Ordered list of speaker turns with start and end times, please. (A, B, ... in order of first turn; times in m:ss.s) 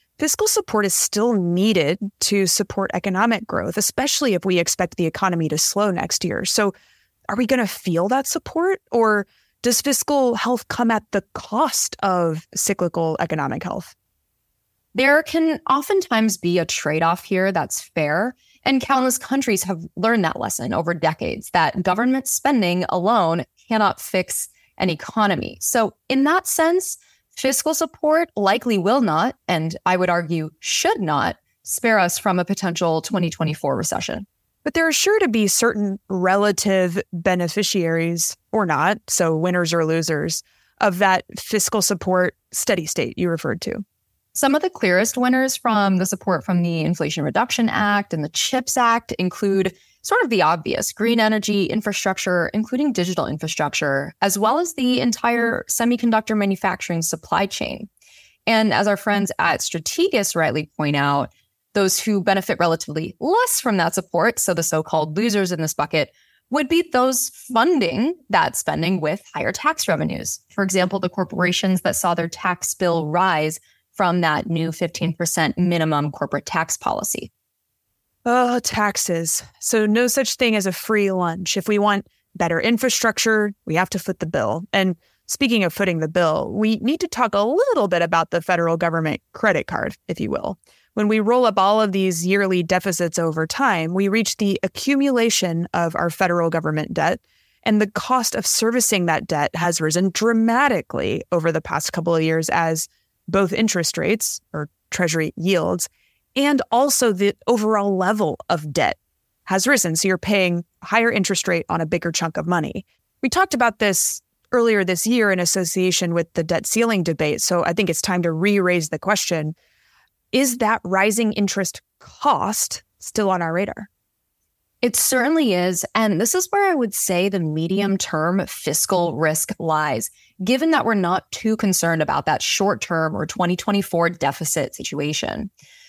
0:00.2-0:06.7 A
0:07.3-0:13.9 A
0:14.9-0:34.2 B
0:34.6-0:43.8 A
0:44.3-0:57.9 B
0:58.5-1:17.3 B
1:18.2-1:59.5 A
2:00.3-2:03.9 A
2:04.8-2:15.5 B